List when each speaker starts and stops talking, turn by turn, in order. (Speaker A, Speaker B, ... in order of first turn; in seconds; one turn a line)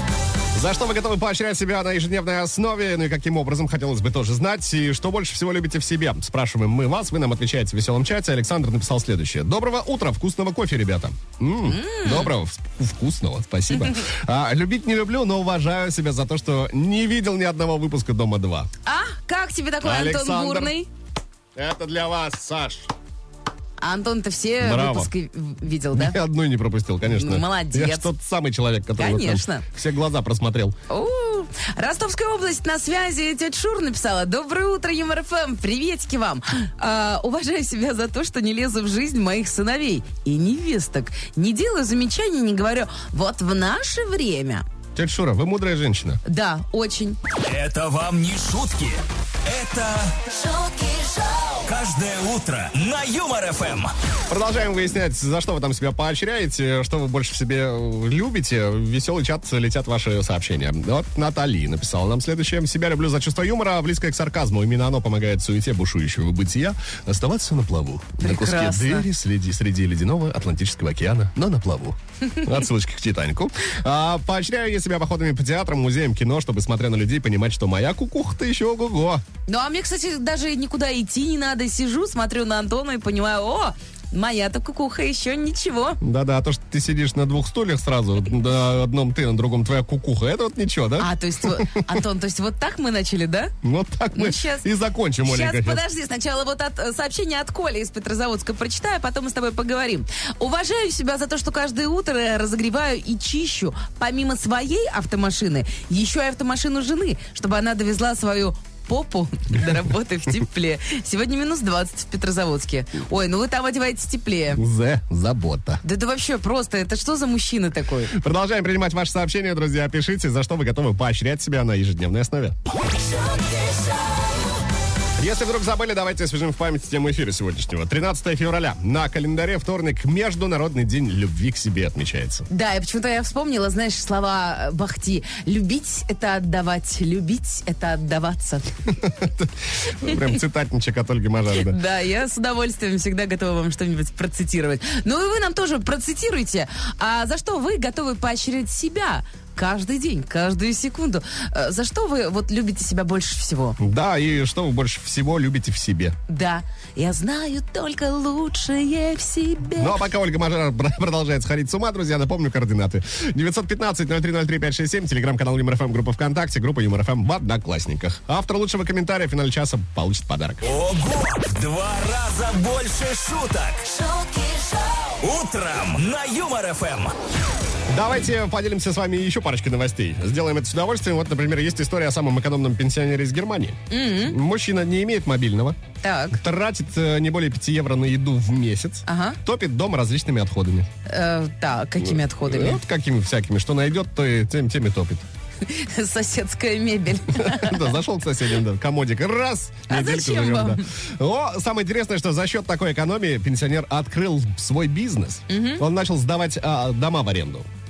Speaker A: 0.5-18.7
Speaker B: 11.6-12.3
Speaker B: 18.9-20.9
Speaker A: 19.8-20.8
Speaker A: 21.6-22.9
Speaker B: 23.8-26.2
Speaker A: 24.6-25.1
Speaker A: 25.9-30.8
Speaker B: 27.1-28.1
Speaker B: 29.0-29.7
Speaker B: 30.9-44.6
Speaker A: 45.0-46.2
Speaker B: 46.2-47.2
Speaker C: 47.5-50.3
Speaker D: 50.3-51.7
Speaker C: 51.6-53.9
Speaker A: 54.3-79.2
Speaker B: 68.2-69.1
Speaker B: 79.5-86.0
Speaker A: 86.0-91.7
Speaker B: 91.0-93.5
Speaker A: 93.6-95.8
Speaker B: 94.1-94.7
Speaker B: 95.2-114.6
Speaker A: 114.5-115.8
Speaker B: 115.8-118.1
Speaker A: 118.1-122.6
Speaker D: 123.1-123.8
Speaker A: 125.2-132.5
Speaker B: 132.5-138.9
Speaker A: 139.0-141.8
Speaker B: 141.6-153.8
Speaker A: 153.8-156.2
Speaker B: 156.3-160.0
Speaker A: 159.8-170.6
Speaker C: 170.6-173.9
Speaker D: 174.0-175.1
Speaker C: 175.2-177.1
Speaker A: 177.9-185.8
Speaker B: 183.9-184.4
Speaker B: 186.0-186.4
Speaker A: 186.3-190.9
Speaker B: 189.1-189.4
Speaker B: 191.1-192.8
Speaker A: 192.0-195.3
Speaker B: 195.6-198.0
Speaker A: 197.3-207.7
Speaker B: 199.9-200.8
Speaker B: 205.5-205.8